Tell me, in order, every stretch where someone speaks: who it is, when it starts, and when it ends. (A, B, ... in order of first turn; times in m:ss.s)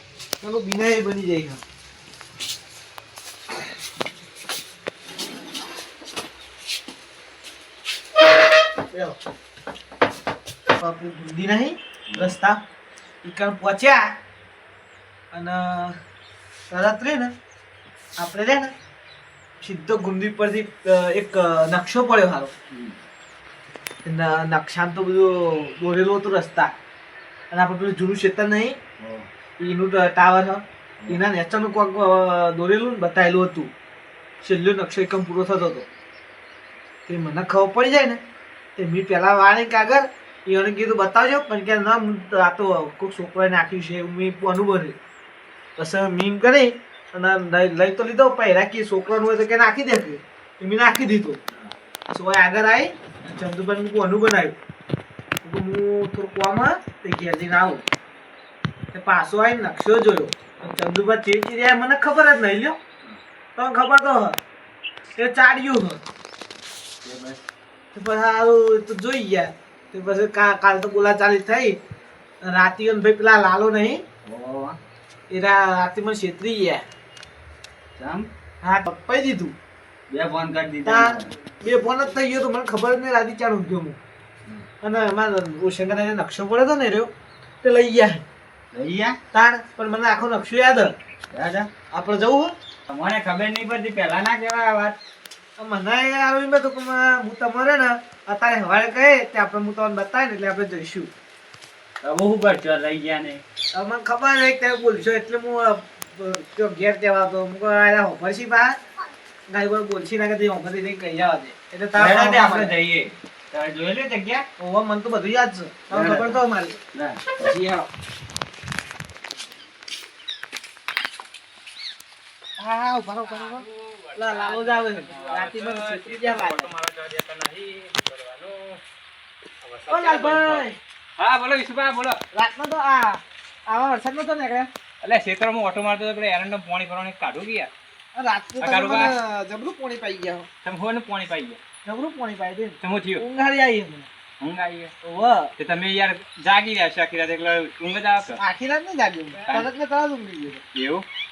0:00.4-0:01.6 A
0:08.9-0:09.2 A
0:10.8-0:12.6 A
0:13.2-0:14.1 A
0:15.3-0:16.0 A
0:16.7-0:17.4 A
0:18.2-0:18.7 A
0:19.6-0:22.5 A
0:22.7-0:23.0 B
0:24.0-0:26.7 A
0:27.5-0:28.8 A
0:29.0-0:29.3 B
0:29.6-0:33.7 A
0:34.4-0:35.9 A
0:37.1-0:38.2 A
0:38.8-0:45.0 A
0:45.8-0:51.5 A
0:52.1-0:54.6 A
0:55.4-0:57.8 A
0:58.9-1:02.8 A
1:03.6-1:04.4 A
1:05.2-1:06.0 A
1:07.0-1:07.4 B
1:07.9-1:11.8 A
1:12.4-1:14.0 A
1:14.2-1:14.8 B
1:15.3-1:16.8 A
1:18.0-1:18.3 B
1:18.6-1:19.6 A
1:20.1-1:21.3 B
1:20.8-1:24.0 A
1:24.8-1:27.1 A
1:27.6-1:28.2 A
1:28.7-1:29.2 B
1:29.3-1:31.0 A
1:31.3-1:31.7 B
1:31.9-1:32.6 A
1:32.9-1:35.0 B
1:35.6-1:41.1 A
1:42.0-1:43.4 B
1:43.7-1:48.8 A
1:49.5-1:52.7 A
1:52.0-1:54.5 B
1:54.6-1:56.8 A
1:55.9-1:56.4 B
1:56.9-1:57.3 B
1:57.4-1:57.9 A
2:02.6-2:06.7 A
2:03.3-2:08.8 C
2:09.6-2:10.7 C
2:09.9-2:10.8 A
2:11.2-2:12.2 C
2:12.3-2:14.7 A
2:15.0-2:17.7 C
2:18.2-2:20.5 A
2:18.6-2:19.2 C
2:20.6-2:21.6 C
2:21.8-2:24.1 A
2:22.8-2:23.2 C
2:24.4-2:24.9 C
2:25.0-2:25.5 A
2:25.6-2:28.4 C
2:28.4-2:30.6 A
2:30.8-2:31.1 C